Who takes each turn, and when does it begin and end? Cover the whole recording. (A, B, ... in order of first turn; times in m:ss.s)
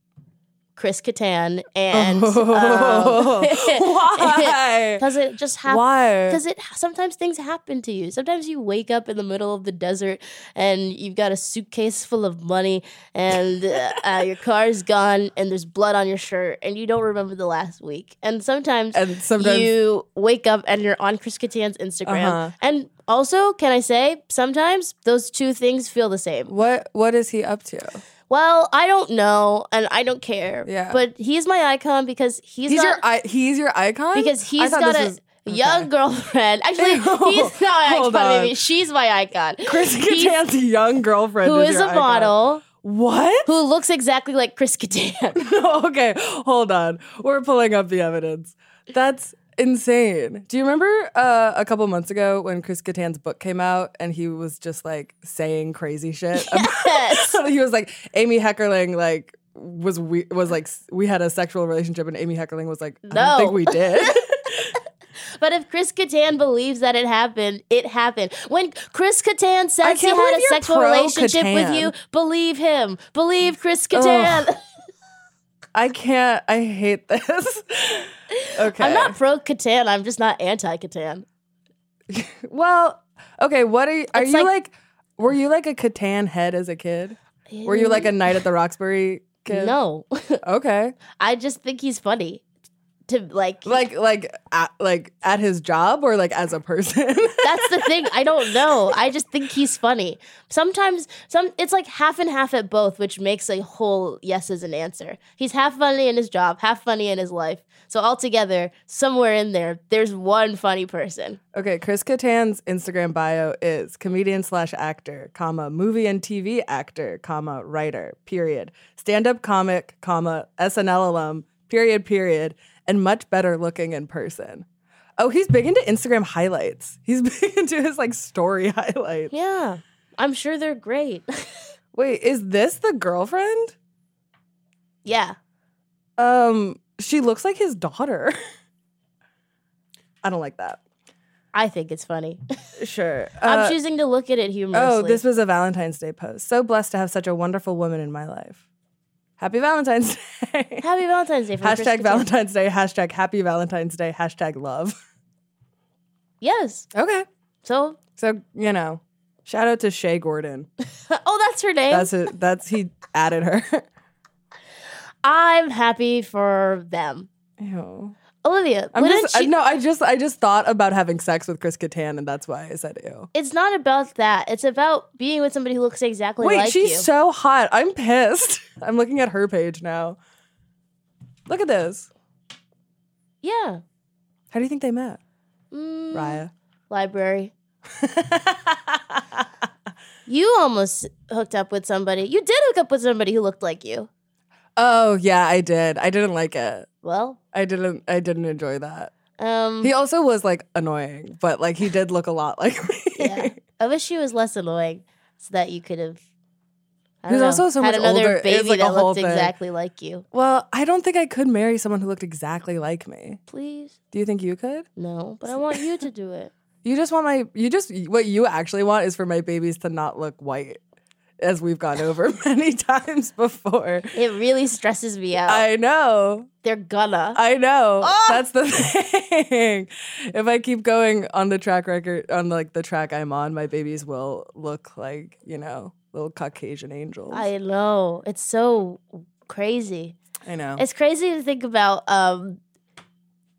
0:00.8-0:26.5 A
0:01.9-0:05.0 B
0:05.7-0:06.4 B
0:18.9-0:19.7 B
0:22.1-0:22.5 B
0:26.5-0:28.0 B
0:28.3-0:33.0 A
0:30.6-0:31.0 B
0:32.7-0:35.9 B
0:34.1-0:40.4 A
0:36.8-0:38.6 B
0:39.6-0:43.5 B
0:41.4-0:42.6 A
0:43.5-0:45.4 A
0:45.4-1:04.7 B
0:56.3-0:57.4 A
1:03.1-1:04.7 A
1:05.4-1:14.6 A
1:09.8-1:11.9 B
1:13.9-1:14.5 B
1:15.7-1:19.2 B
1:18.3-1:21.2 A
1:22.1-1:29.8 B
1:24.1-1:24.5 A
1:27.5-1:28.1 A
1:29.5-1:30.4 A
1:30.4-1:31.0 B
1:31.2-1:32.4 A
1:33.1-1:33.8 A
1:33.6-1:37.9 B
1:37.4-1:51.4 A
1:51.5-2:04.6 B
2:05.2-2:09.3 B
2:09.3-2:11.7 A
2:11.9-2:13.8 B
2:15.0-2:15.4 A
2:16.2-2:18.4 B
2:20.2-2:20.8 B
2:21.5-2:22.4 A
2:22.8-2:23.8 B
2:23.5-2:25.2 A
2:24.7-2:28.6 B
2:29.4-2:30.8 B
2:30.8-2:32.3 A
2:31.6-2:35.0 B
2:36.4-2:36.9 A
2:36.9-2:37.3 B
2:37.6-2:38.0 A
2:38.2-2:40.7 B
2:41.1-2:42.1 A
2:41.9-2:43.8 B
2:45.2-2:47.3 A
2:47.6-2:48.2 B
2:48.4-2:49.5 A
2:48.9-2:53.3 B
2:53.3-2:57.1 A
2:56.4-3:00.2 B
3:01.5-3:02.1 B
3:03.4-3:03.8 A
3:04.5-3:05.2 B
3:05.7-3:07.5 A
3:06.1-3:06.5 B
3:08.0-3:09.4 B
3:10.3-3:14.1 A
3:14.8-3:16.9 B
3:17.0-3:17.4 A
3:17.5-3:19.1 B
3:19.4-3:19.9 A
3:19.8-3:23.6 B
3:23.2-3:26.2 A
3:27.2-3:30.2 A
3:27.3-3:29.5 B
3:30.3-3:33.4 B
3:33.5-3:34.0 A
3:34.1-3:34.9 B
3:35.0-3:36.5 A
3:36.8-3:40.8 B
3:41.4-3:44.1 B
3:44.2-3:45.7 A
3:45.5-3:46.5 B
3:46.6-3:47.4 A
3:47.4-3:57.5 B
3:48.0-3:48.4 A
3:57.3-4:00.2 A
4:00.5-4:00.8 B
4:00.8-4:02.6 A